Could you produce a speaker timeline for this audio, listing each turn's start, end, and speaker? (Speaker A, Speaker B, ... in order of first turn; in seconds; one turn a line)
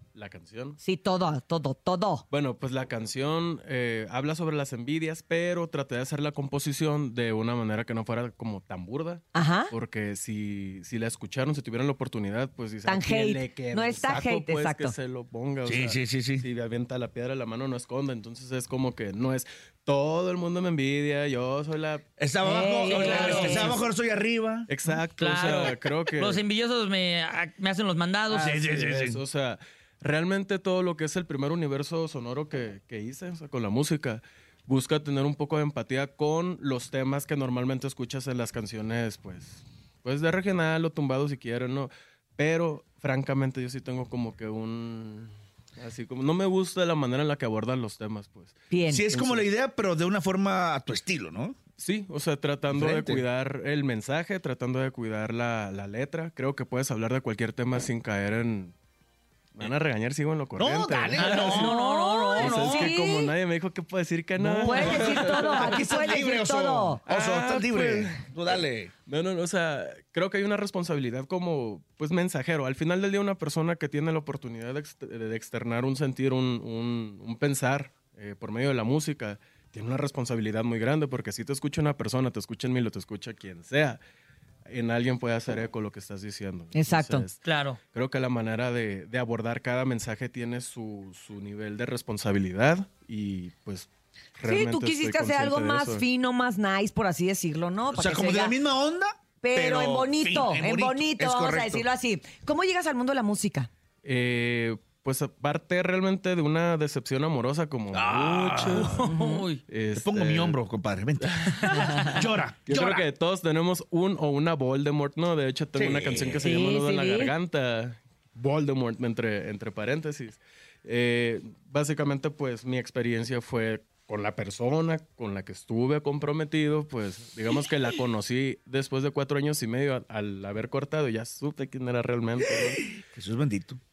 Speaker A: 0.1-0.8
Speaker B: 0.8-2.2
Speaker A: 2.3-22.0
Speaker B: 9.3-9.7
Speaker B: 12.8-14.9
Speaker C: 15.7-16.4
Speaker C: 22.2-24.7
Speaker B: 22.4-23.8
Speaker D: 22.9-23.7
Speaker A: 23.0-23.5
Speaker A: 24.7-26.4
Speaker D: 25.1-28.5
Speaker A: 28.3-49.5
Speaker C: 28.3-29.2
Speaker B: 48.7-49.0
Speaker C: 48.9-51.5
Speaker A: 51.8-58.7
Speaker C: 52.7-53.2
Speaker A: 59.5-61.7
Speaker C: 60.6-61.7
Speaker D: 61.1-62.9
Speaker B: 61.5-63.3
Speaker A: 62.4-65.9
Speaker C: 64.4-68.9
Speaker B: 64.6-67.0
Speaker A: 67.1-84.0
Speaker A: 84.7-87.4
Speaker B: 86.7-87.3
Speaker D: 87.4-87.8
Speaker A: 87.9-96.1
Speaker B: 94.4-98.5
Speaker C: 97.9-101.8
Speaker B: 99.4-103.7
Speaker A: 104.0-109.1
Speaker C: 107.9-109.0
Speaker D: 108.6-109.6
Speaker B: 109.1-109.4
Speaker A: 109.7-110.6
Speaker C: 109.9-113.1
Speaker A: 111.2-112.1
Speaker D: 111.6-112.1
Speaker A: 112.7-132.9
Speaker C: 115.7-116.5
Speaker B: 116.4-117.3
Speaker C: 132.4-133.8